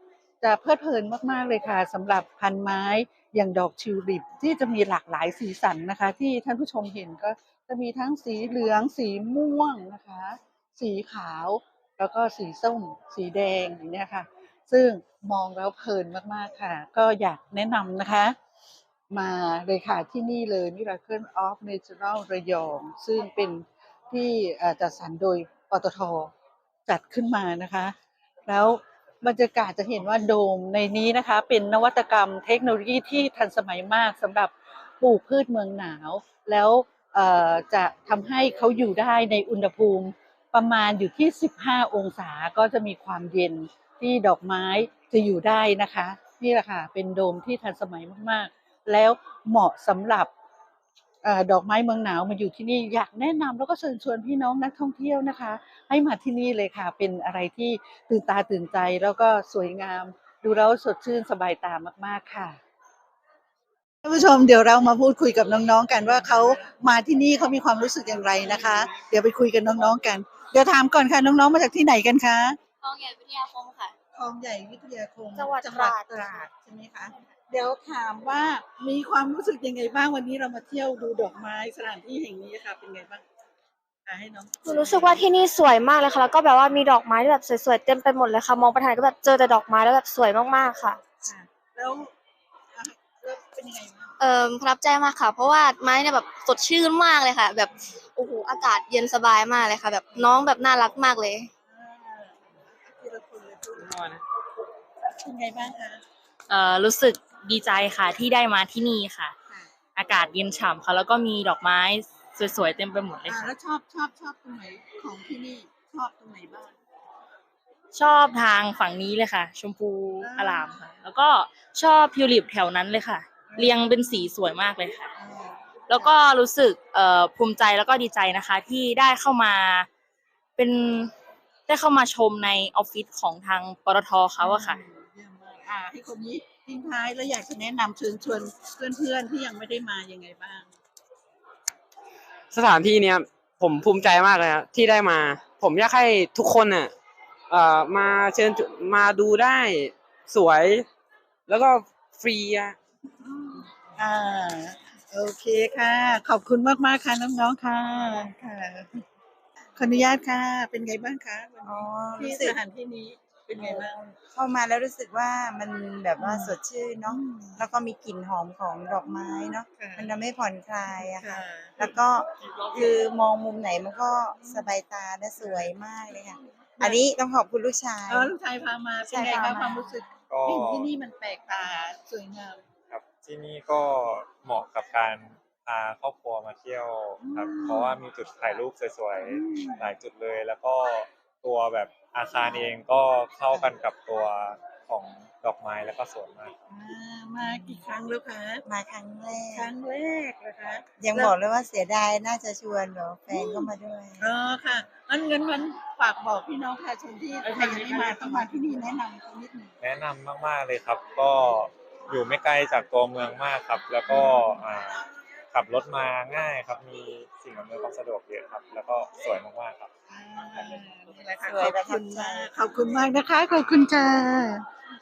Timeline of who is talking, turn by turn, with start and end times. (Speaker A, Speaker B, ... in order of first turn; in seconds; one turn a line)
Speaker A: 0.4-18.4
Speaker A: 19.1-26.3
Speaker A: 26.9-27.9
Speaker A: 28.5-50.3
Speaker A: 51.2-62.6
Speaker A: 64.0-72.6
Speaker B: 72.8-73.9
Speaker A: 74.1-83.2
Speaker C: 75.4-76.4
Speaker A: 84.1-85.3
Speaker C: 84.6-91.0
Speaker A: 91.2-92.1
Speaker A: 92.8-94.2
Speaker B: 94.2-101.5
Speaker A: 100.1-100.5
Speaker A: 101.7-104.0
Speaker D: 103.8-104.2
Speaker A: 105.2-106.0
Speaker E: 106.5-109.3
Speaker E: 110.0-113.5
Speaker A: 113.3-116.8
Speaker E: 117.9-125.1
Speaker A: 120.2-120.8
Speaker A: 123.5-124.3
Speaker A: 125.2-126.2
Speaker E: 125.9-129.9
Speaker E: 130.6-131.1
Speaker E: 131.7-134.8
Speaker A: 134.4-140.7
Speaker D: 142.5-146.9
Speaker D: 147.5-150.9
Speaker D: 151.5-152.8
Speaker A: 153.3-159.0
Speaker A: 159.8-164.0
Speaker F: 161.7-162.6
Speaker F: 163.6-178.3
Speaker A: 166.2-166.6
Speaker A: 167.1-167.6
Speaker A: 169.1-170.1
Speaker A: 170.9-171.9
Speaker A: 174.4-174.7
Speaker A: 175.4-177.0
Speaker A: 178.1-182.6
Speaker F: 179.1-179.9
Speaker G: 180.3-180.9
Speaker G: 182.9-196.5
Speaker A: 187.2-188.0
Speaker A: 189.2-189.9
Speaker A: 196.7-198.7
Speaker F: 197.4-197.8
Speaker F: 198.7-199.7
Speaker A: 199.6-201.3
Speaker F: 201.0-204.3
Speaker A: 203.3-209.7
Speaker G: 209.8-219.9
Speaker A: 214.1-214.6
Speaker A: 220.1-224.6
Speaker F: 221.4-222.5